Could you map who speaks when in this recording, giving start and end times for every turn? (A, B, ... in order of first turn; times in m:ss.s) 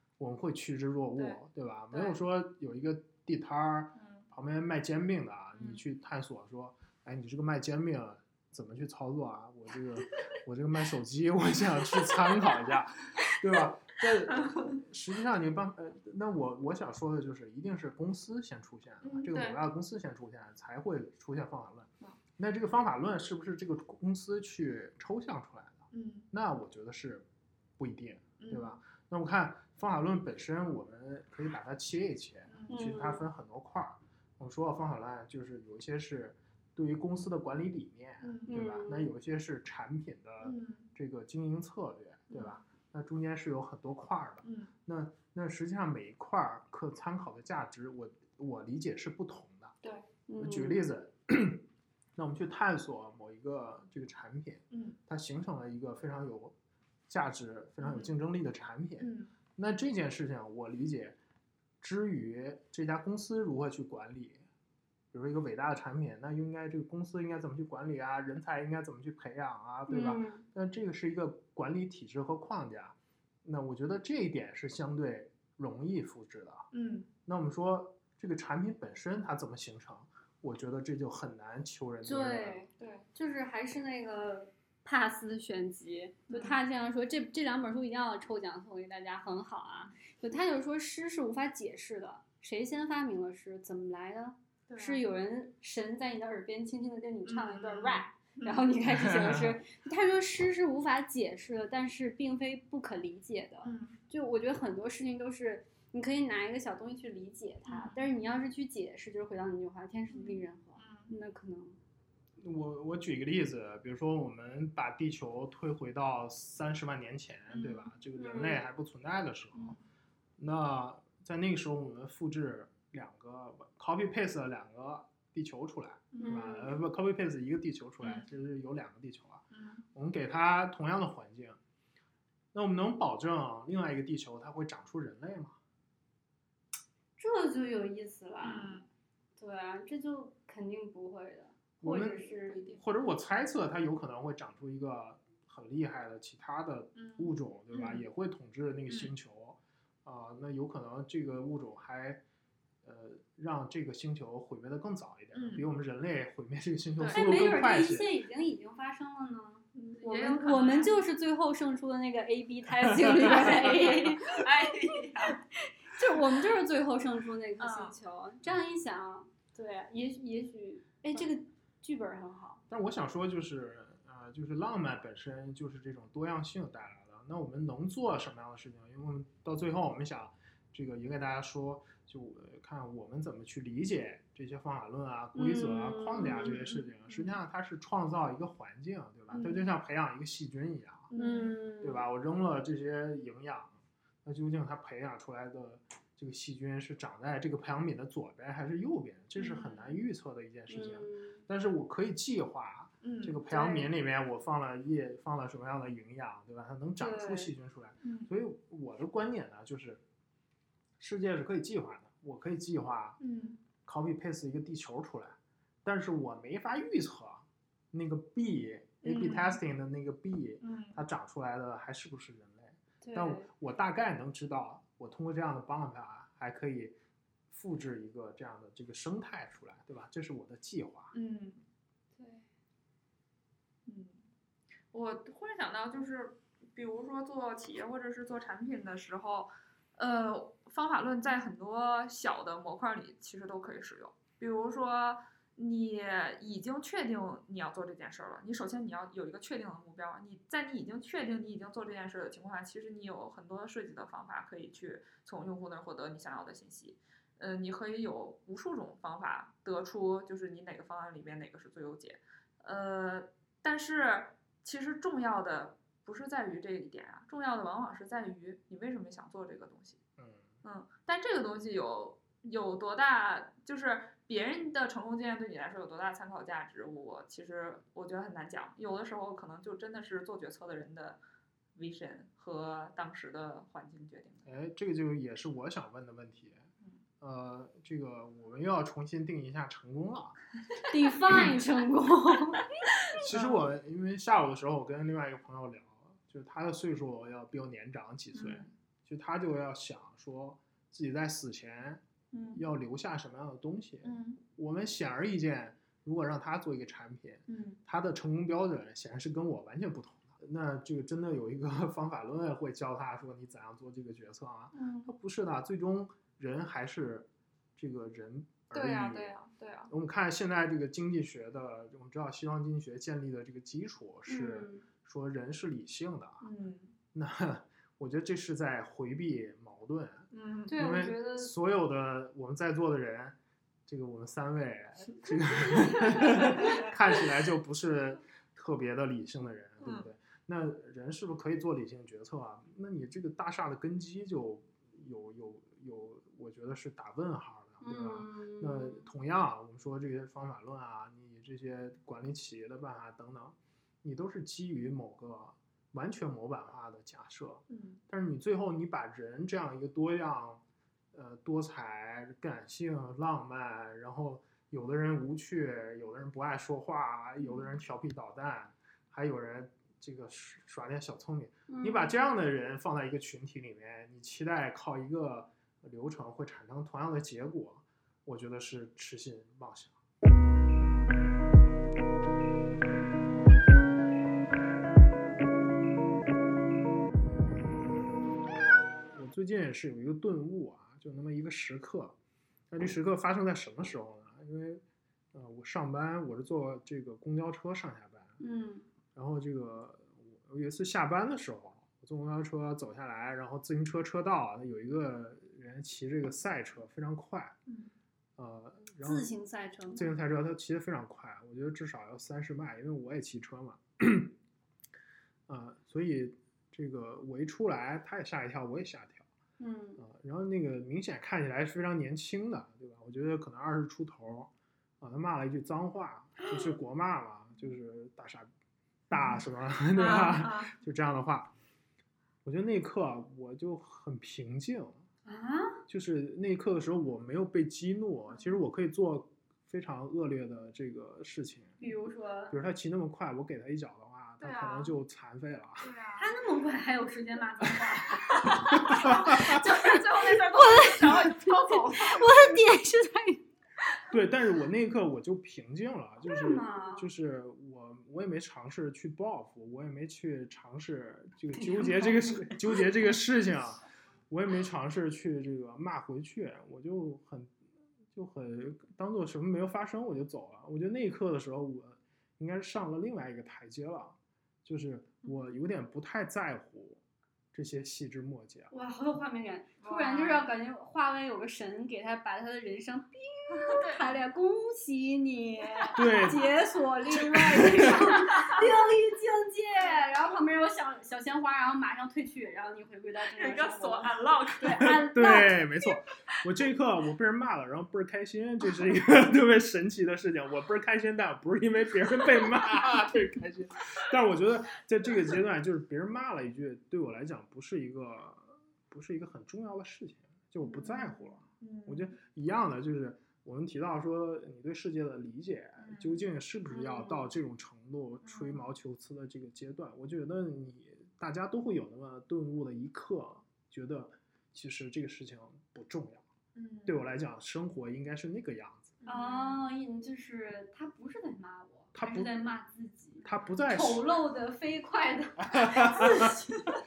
0:00.2-0:27.2 A
0:01.2-0:02.2 B
0:04.0-0:04.2 B
0:05.6-0:05.8 B
0:14.3-0:14.8 B
0:19.0-0:19.6 B
0:25.9-0:26.3 B
0:27.8-0:49.7 A
0:28.4-0:28.8 B
0:32.5-0:32.8 B
0:32.7-0:33.2 C
0:38.2-0:38.6 B
0:38.5-0:39.1 C
0:40.4-0:40.9 B
0:42.3-0:42.6 B
0:44.4-0:44.7 B
0:50.3-0:50.8 C
0:50.4-0:51.6 A
0:52.2-0:56.5 A
0:54.7-0:55.0 B
0:57.1-1:01.2 A
0:57.8-0:58.1 B
0:59.0-0:59.3 B
1:01.8-1:04.4 A
1:05.1-1:16.7 A
1:09.9-1:10.4 C
1:16.7-1:17.1 B
1:17.2-1:22.6 A
1:22.0-1:51.8 C
1:22.8-1:23.0 B
1:26.3-1:26.6 B
1:34.7-1:35.0 B
1:37.2-1:38.7 B
1:38.8-1:39.6 A
1:43.6-1:44.0 B
1:47.6-1:48.0 B
1:50.1-1:51.1 B
1:52.4-1:59.8 A
1:57.5-1:57.9 B
1:58.2-1:58.6 C
2:00.4-2:09.4 A
2:06.1-2:06.5 B
2:06.2-2:06.7 C
2:08.0-2:08.3 B
2:09.5-2:09.8 B
2:09.9-2:11.6 A
2:12.5-2:15.6 A
2:17.2-2:18.8 C
2:18.4-2:18.8 B
2:19.4-2:22.6 C
2:21.8-2:32.2 A
2:22.4-2:22.8 B
2:27.0-2:28.0 B
2:32.8-2:38.1 A
2:35.3-2:35.6 B
2:37.0-2:37.3 B
2:37.1-2:44.4 C
2:39.7-2:41.0 B
2:43.3-2:45.4 B
2:45.3-2:52.6 C
2:47.6-2:48.0 B
2:52.7-3:11.1 A
3:05.3-3:06.7 C
3:06.4-3:07.3 B
3:09.3-3:09.6 B
3:11.1-3:11.5 B
3:11.1-3:12.1 C
3:11.8-3:30.0 A
3:19.4-3:20.0 B
3:20.7-3:21.4 C
3:23.0-3:23.4 B
3:23.5-3:23.9 C
3:27.0-3:27.5 C
3:28.0-3:28.3 B
3:31.0-3:33.2 A
3:33.2-3:33.6 B
3:33.8-3:46.9 A
3:39.0-3:39.6 B
3:40.6-3:41.0 B
3:43.0-3:43.5 C
3:47.5-3:51.1 A
3:51.1-3:51.6 B
3:52.2-3:52.4 C
3:53.8-3:54.2 B
3:54.9-4:30.0 B
4:30.2-4:30.5 A
4:30.6-4:41.2 B
4:41.8-4:44.5 B
4:44.4-4:46.6 A
4:47.2-4:50.4 A
4:50.9-4:52.7 C
4:53.1-5:02.0 A
4:53.1-4:53.6 B
4:58.3-4:58.7 B
5:02.3-5:02.6 B
5:02.5-5:19.3 A
5:04.0-5:04.4 B
5:07.5-5:07.8 B
5:14.7-5:15.1 B
5:18.7-5:19.9 B
5:19.9-5:26.5 A
5:24.3-5:24.8 C
5:26.4-5:26.9 B
5:27.1-6:00.6 A
5:30.3-5:30.8 B
5:30.7-5:31.5 C
5:36.0-5:36.8 B
5:39.8-5:40.1 B
5:47.8-5:49.1 C
5:57.7-5:58.0 B
6:01.1-6:20.0 A
6:11.7-6:12.1 C
6:29.1-6:32.2 A
6:32.7-6:34.8 A
6:35.3-6:38.4 A
6:38.4-6:38.9 C
6:39.1-6:47.5 A
6:48.4-6:49.3 A
6:49.0-6:50.1 C
6:49.9-6:54.3 A
6:55.5-6:59.3 A
6:59.6-7:00.0 C
7:00.0-7:08.5 A
7:09.1-7:11.5 A
7:09.9-7:10.7 B
7:12.4-7:15.0 A
7:15.2-7:15.8 C
7:15.9-7:21.8 A
7:18.3-7:18.6 B
7:21.8-7:22.5 C
7:22.5-7:25.9 A
7:24.4-7:24.9 B
7:25.8-7:26.3 B
7:26.2-7:33.4 C
7:28.3-7:32.5 B
7:28.4-7:29.6 A
7:34.1-7:47.5 A
7:36.3-7:37.1 C
7:41.6-7:42.8 C
7:48.1-7:57.0 A
7:57.5-7:58.7 A
7:58.7-8:15.6 C
7:59.8-8:00.5 B
8:03.5-8:04.1 B
8:06.0-8:06.5 A
8:07.1-8:08.1 A
8:08.2-8:08.5 B
8:13.3-8:14.9 B
8:14.7-8:46.2 A
8:30.6-8:31.4 C
8:31.6-8:32.1 B
8:35.8-8:36.2 B
8:36.7-8:37.3 C
8:38.2-8:38.6 B
8:46.5-8:47.0 B
8:46.8-8:48.9 A
8:49.0-8:49.6 B
8:49.1-8:56.7 C
8:51.9-8:52.3 A
8:53.2-8:54.0 A
8:55.5-8:56.4 A